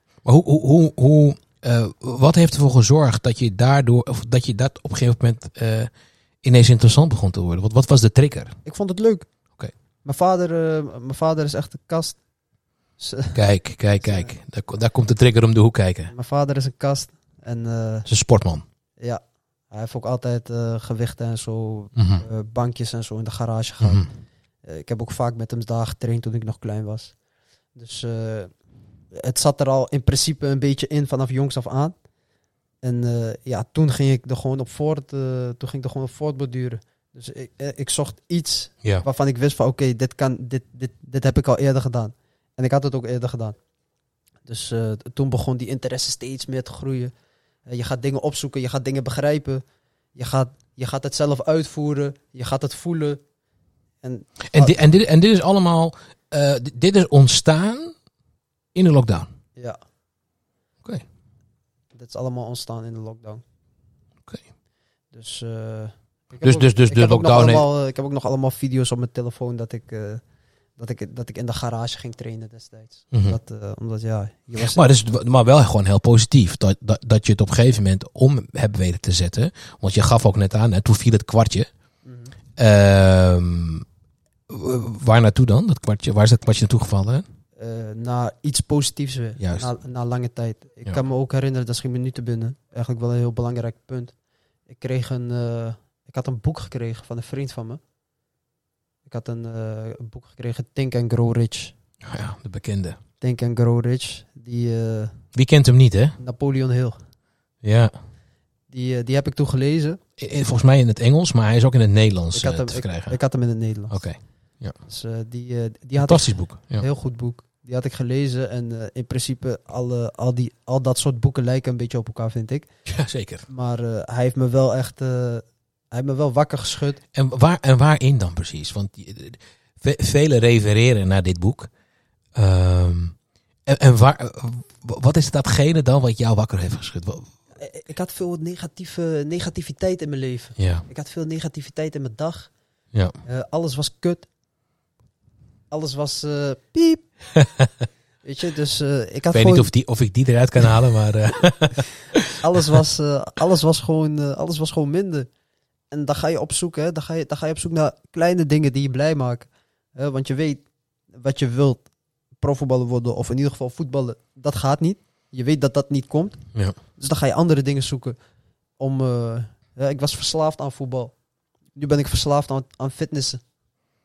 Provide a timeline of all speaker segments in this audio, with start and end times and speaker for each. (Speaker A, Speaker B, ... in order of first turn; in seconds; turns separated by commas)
Speaker A: 0.2-5.9, Speaker A: 6.4-8.6, Speaker B: 8.6-9.3, Speaker B: 10.0-12.2, Speaker B: 13.0-13.4, Speaker A: 13.3-16.1, Speaker B: 14.0-14.3, Speaker B: 16.1-18.1, Speaker A: 18.1-18.6, Speaker B: 19.0-24.1, Speaker A: 21.9-22.2, Speaker A: 23.8-24.1, Speaker B: 24.6-27.1, Speaker B: 27.8-28.5, Speaker B: 29.1-31.9, Speaker B: 32.8-43.6, Speaker B: 44.5-47.1, Speaker B: 47.6-49.6, Speaker B: 50.1-53.2, Speaker B: 54.0-54.8, Speaker A: 54.4-57.9, Speaker A: 58.7-59.3, Speaker B: 61.9-63.4, Speaker B: 65.1-70.2, Speaker A: 66.4-67.7, Speaker B: 70.8-74.8, Speaker A: 73.1-73.4, Speaker A: 74.6-81.7, Speaker B: 82.0-82.3, Speaker A: 82.5-83.8, Speaker A: 84.5-87.2, Speaker B: 87.6-94.1, Speaker A: 89.4-89.7, Speaker B: 94.7-97.8, Speaker B: 99.0-101.7, Speaker A: 102.0-103.0, Speaker B: 103.2-105.2, Speaker A: 105.3-106.2, Speaker B: 106.2-107.0, Speaker A: 107.6-107.9, Speaker B: 108.7-110.0, Speaker A: 110.2-113.2, Speaker B: 112.3-114.0, Speaker A: 113.9-114.8, Speaker B: 114.8-122.7, Speaker A: 116.0-116.8, Speaker A: 122.9-123.5, Speaker B: 123.5-127.0, Speaker A: 127.1-131.7, Speaker A: 132.3-133.1, Speaker A: 133.7-137.3, Speaker B: 137.6-142.5, Speaker A: 140.6-140.8, Speaker B: 143.2-144.3, Speaker B: 145.7-147.1, Speaker A: 147.3-147.7, Speaker B: 148.2-149.7, Speaker A: 149.3-152.3, Speaker B: 152.4-155.3, Speaker B: 155.9-160.6, Speaker B: 161.1-161.9, Speaker B: 162.4-166.4, Speaker B: 167.0-168.2, Speaker B: 168.8-171.1, Speaker B: 171.8-173.4